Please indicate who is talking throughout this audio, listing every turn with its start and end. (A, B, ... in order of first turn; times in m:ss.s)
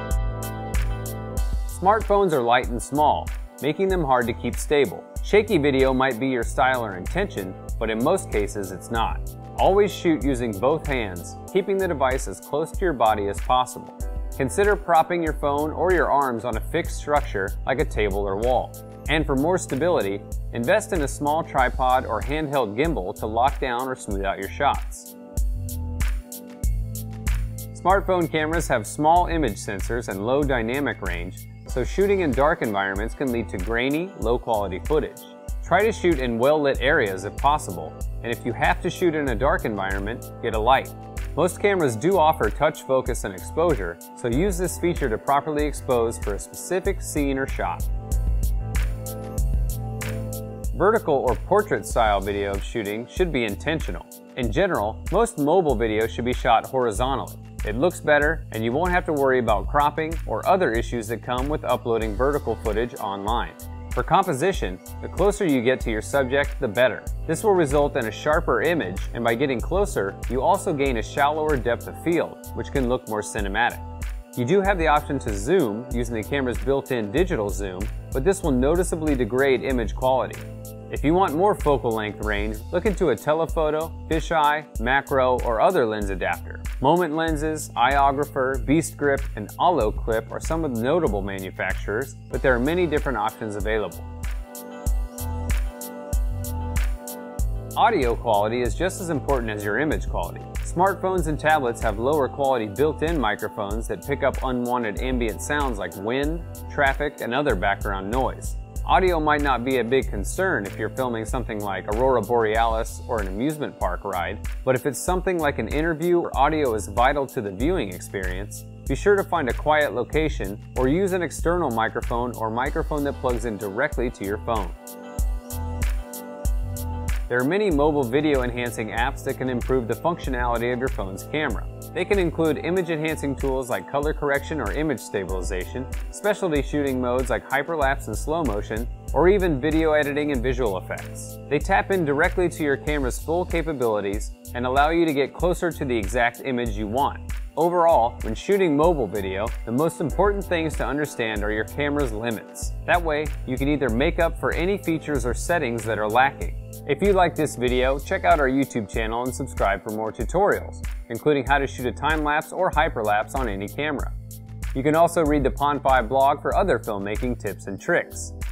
0:01.6-0:25.1 A
0:27.7-0:47.8 A
0:50.7-1:34.1 A
1:37.8-2:04.8 A
2:07.3-2:44.1 A
2:44.7-2:48.3 A